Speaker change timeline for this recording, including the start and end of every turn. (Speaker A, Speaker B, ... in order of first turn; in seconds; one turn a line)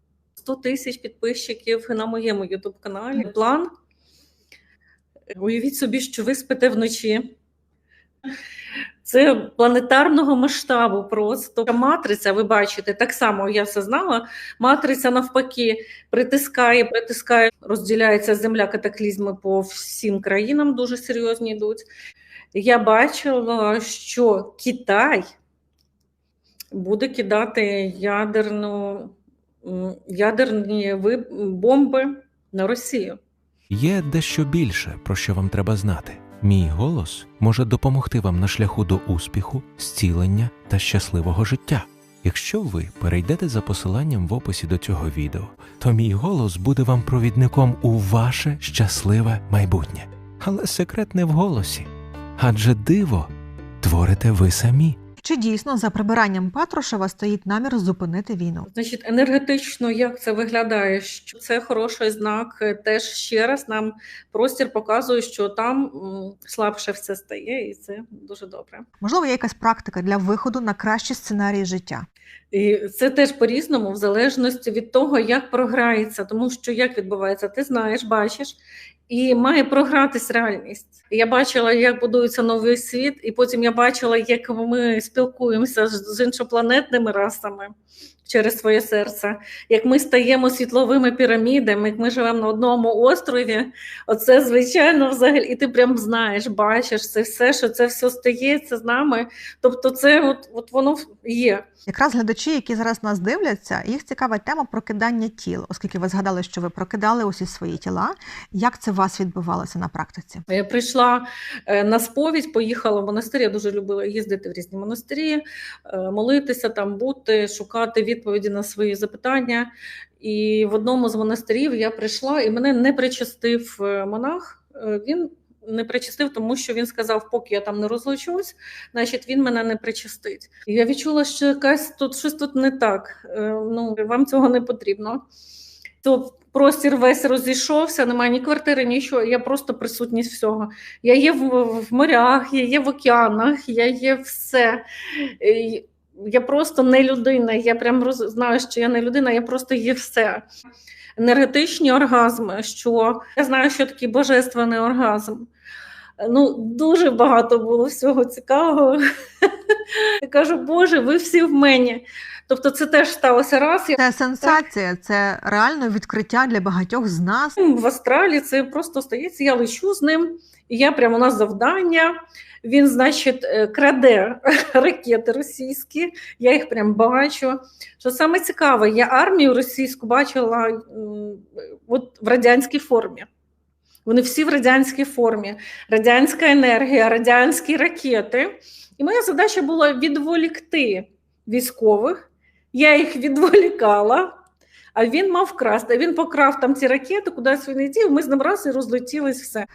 Speaker A: 0.4-3.7
Speaker A: 5.3-7.3
Speaker A: 9.0-21.9
Speaker A: 22.5-25.2
Speaker A: 26.7-33.2
Speaker B: 33.7-53.3
Speaker B: 53.8-55.0
Speaker C: 55.2-58.7
Speaker A: 58.7-68.8
Speaker C: 69.0-72.0
Speaker A: 72.5-78.5
Speaker A: 79.1-87.7
Speaker A: 88.2-101.6
Speaker C: 101.9-110.4
Speaker A: 110.5-135.2
Speaker A: 136.0-150.4
Speaker A: 151.2-155.5
Speaker A: 156.2-164.6
Speaker C: 164.0-167.6
Speaker A: 167.6-183.3
Speaker A: 184.1-192.2
Speaker A: 192.7-194.3
Speaker A: 194.9-199.7